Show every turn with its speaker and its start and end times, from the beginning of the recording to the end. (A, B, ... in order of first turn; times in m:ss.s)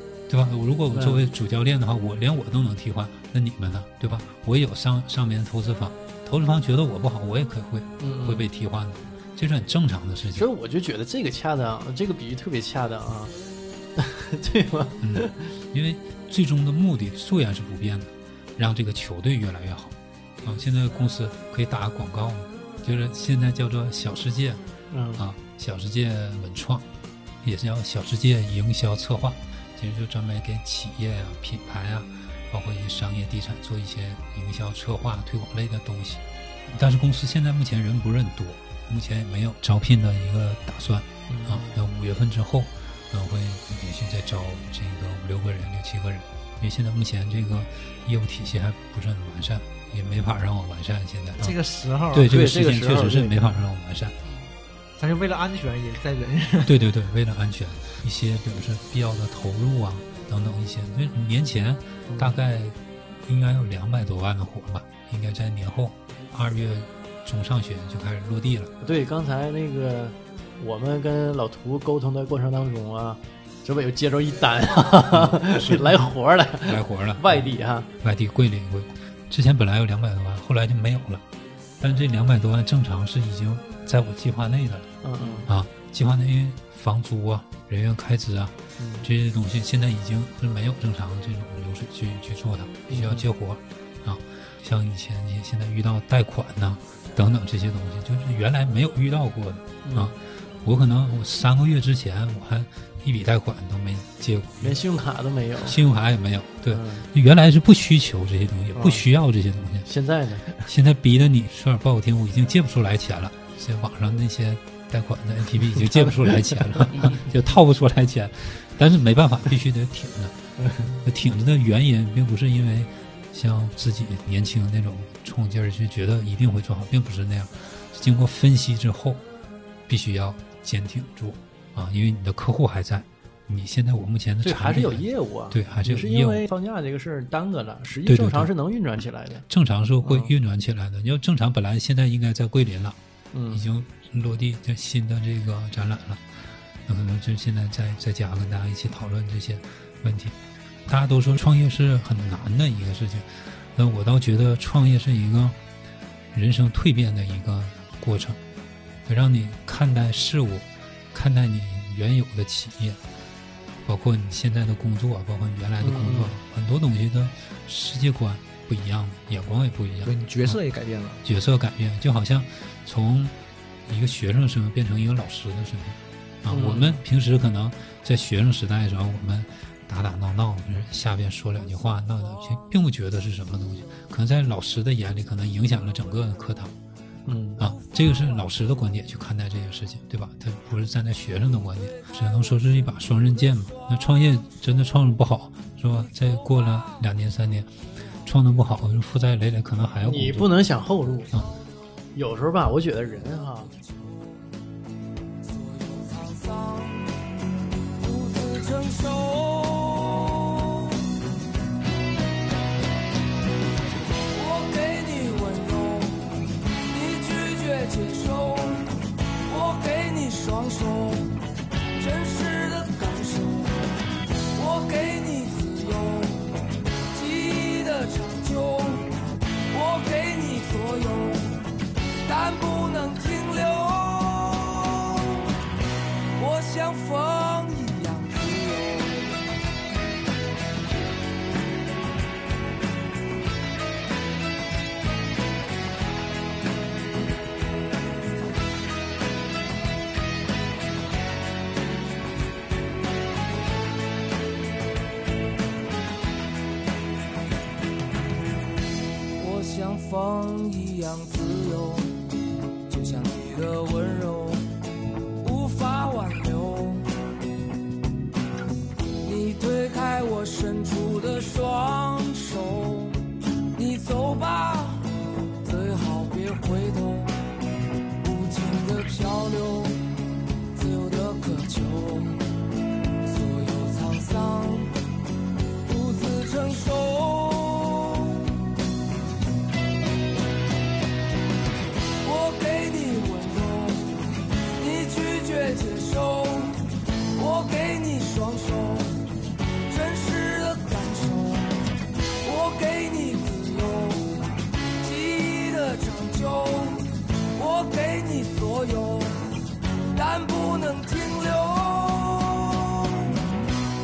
0:00.3-0:10.5 A
0:00.9-0:01.3 B
0:08.0-0:08.5 B
0:10.4-0:13.4 B
0:14.0-0:15.6 B
0:15.0-0:24.6 A
0:24.9-0:25.2 B
0:25.2-0:26.9 A
0:27.4-0:51.6 A
0:41.3-0:41.8 B
0:51.4-0:52.4 C
0:52.1-0:54.2 A
0:52.3-0:53.5 B
0:55.0-0:56.8 C
0:56.6-1:08.7 A
1:02.1-1:02.4 B
1:08.8-1:17.9 B
1:15.1-1:16.1 A
1:16.6-1:17.4 A
1:18.0-1:21.2 A
1:21.8-1:44.8 A
1:25.0-1:25.5 B
1:28.8-1:29.1 B
1:32.9-1:33.3 B
1:39.8-1:40.1 B
1:44.6-1:45.8 B
1:45.6-1:49.9 A
1:46.7-1:47.1 B
1:48.8-1:49.1 B
1:49.8-1:50.7 B
1:50.6-2:09.2 A
1:56.0-1:56.6 B
2:00.6-2:00.9 B
2:09.9-2:16.4 A
2:14.4-2:19.4 B
2:18.1-2:18.5 A
2:19.5-2:23.0 A
2:20.0-2:20.3 B
2:23.3-2:23.7 B
2:23.5-2:35.6 A
2:36.3-2:38.4 A
2:39.1-2:43.0 A
2:43.8-2:50.6 A
2:45.8-2:46.4 B
2:50.0-2:51.2 C
2:51.2-2:53.4 A
2:53.9-3:06.7 A
2:56.5-2:57.0 B
3:07.3-3:07.7 B
3:07.6-3:20.5 A
3:20.0-3:21.3 B
3:22.2-3:23.7 B
3:25.8-3:27.2 D
3:28.0-3:31.0 D
3:34.2-3:38.9 D
3:39.4-3:41.4 D
3:42.0-3:49.1 D
3:49.7-3:51.6 D
3:52.2-3:55.5 D
3:56.4-3:59.5 D
4:19.4-4:22.2 D
4:22.9-4:24.7 D
4:25.4-4:27.1 D
4:29.2-4:37.3 D
4:38.2-4:40.0 D
4:40.7-4:42.4 D
4:43.2-4:44.9 D
4:45.8-4:48.6 D
4:52.2-4:54.2 D
4:54.8-4:59.2 D
4:59.9-5:01.8 D
5:02.4-5:09.4 D
5:10.1-5:13.5 D